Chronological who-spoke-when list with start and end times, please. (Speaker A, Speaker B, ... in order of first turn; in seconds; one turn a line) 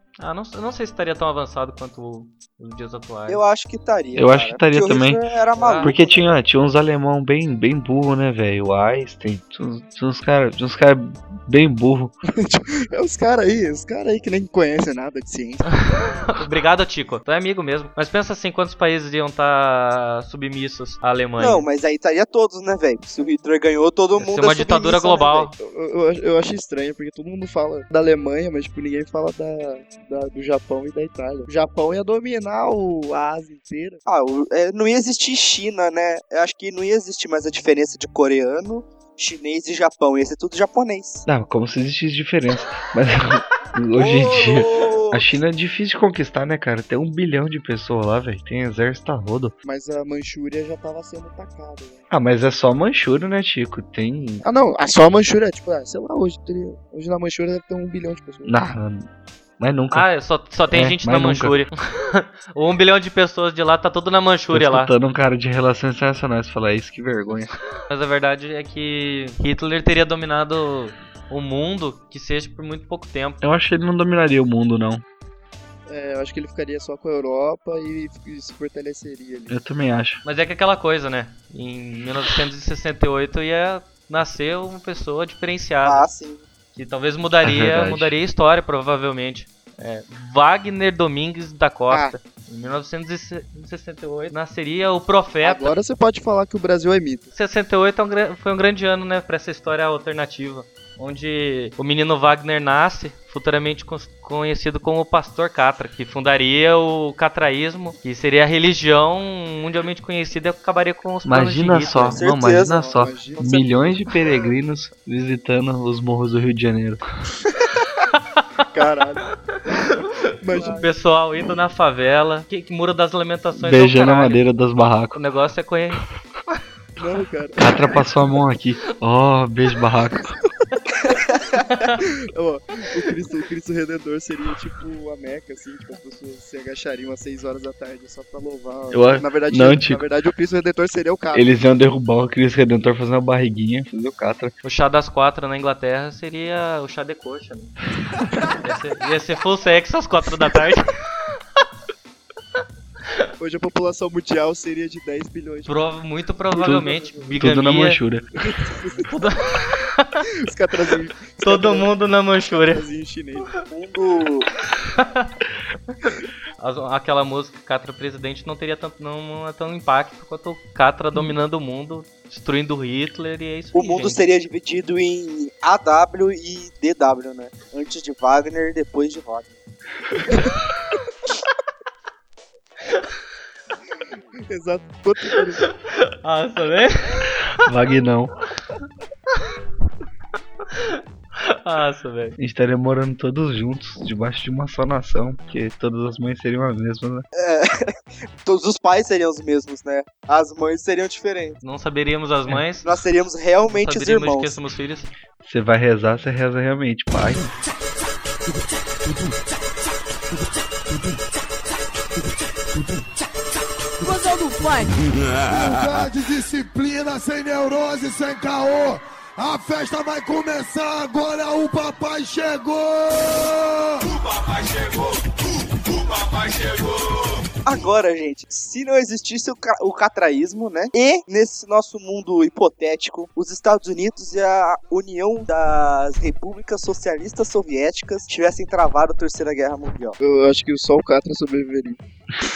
Speaker A: 0.2-3.4
Speaker B: 3.3-6.1
Speaker C: 4.1-5.2
Speaker A: 5.5-5.9
Speaker C: 5.8-12.1
Speaker D: 12.2-16.3
Speaker A: 15.9-21.6
Speaker B: 21.4-25.5
Speaker A: 24.2-25.5
Speaker D: 25.6-34.0
Speaker B: 34.0-41.2
Speaker C: 41.2-49.5
Speaker B: 44.0-45.2
Speaker D: 49.6-52.0
Speaker C: 52.1-54.4
Speaker D: 54.4-58.5
Speaker C: 58.5-59.1
Speaker C: 59.6-60.1
Speaker A: 59.9-64.9
Speaker C: 60.7-61.6
Speaker C: 64.5-67.5
Speaker A: 67.9-73.4
Speaker C: 73.4-75.0
Speaker D: 75.9-79.5
Speaker C: 79.5-80.2
Speaker A: 80.2-86.0
Speaker B: 85.8-86.4
Speaker A: 86.7-95.7
Speaker C: 87.4-88.1
Speaker D: 91.9-92.2
Speaker D: 95.4-97.3
Speaker A: 97.3-112.2
Speaker C: 111.2-117.0
Speaker B: 112.1-113.7
Speaker D: 112.4-113.6
Speaker A: 118.0-118.4
Speaker D: 118.7-119.3
Speaker A: 119.7-124.4
Speaker D: 120.4-120.9
Speaker C: 123.5-125.2
Speaker A: 125.1-126.0
Speaker D: 127.0-128.2
Speaker C: 127.6-130.3
Speaker A: 131.6-132.0
Speaker D: 132.0-141.5
Speaker C: 138.9-140.1
Speaker C: 141.3-144.5
Speaker A: 144.6-147.7
Speaker A: 148.5-151.3
Speaker D: 153.4-155.8
Speaker A: 155.7-158.0
Speaker D: 156.5-157.4
Speaker C: 156.6-158.2
Speaker D: 158.4-159.1
Speaker A: 159.0-160.2
Speaker D: 160.4-163.6
Speaker A: 161.4-162.8
Speaker B: 163.6-164.5
Speaker A: 164.9-165.3
Speaker A: 166.6-174.2
Speaker B: 173.7-179.5
Speaker D: 184.5-185.6
Speaker A: 185.6-187.4
Speaker C: 187.6-188.3
Speaker A: 190.7-192.3
Speaker C: 192.4-197.2
Speaker B: 197.3-201.6
Speaker A: 201.6-202.9
Speaker B: 202.8-204.6
Speaker A: 203.7-205.1
Speaker C: 205.4-207.4
Speaker E: 209.0-209.4
Speaker E: 210.4-211.2
Speaker E: 212.7-213.1
Speaker E: 214.0-224.2
Speaker E: 226.0-226.8
Speaker B: 227.6-240.2
Speaker D: 240.2-242.0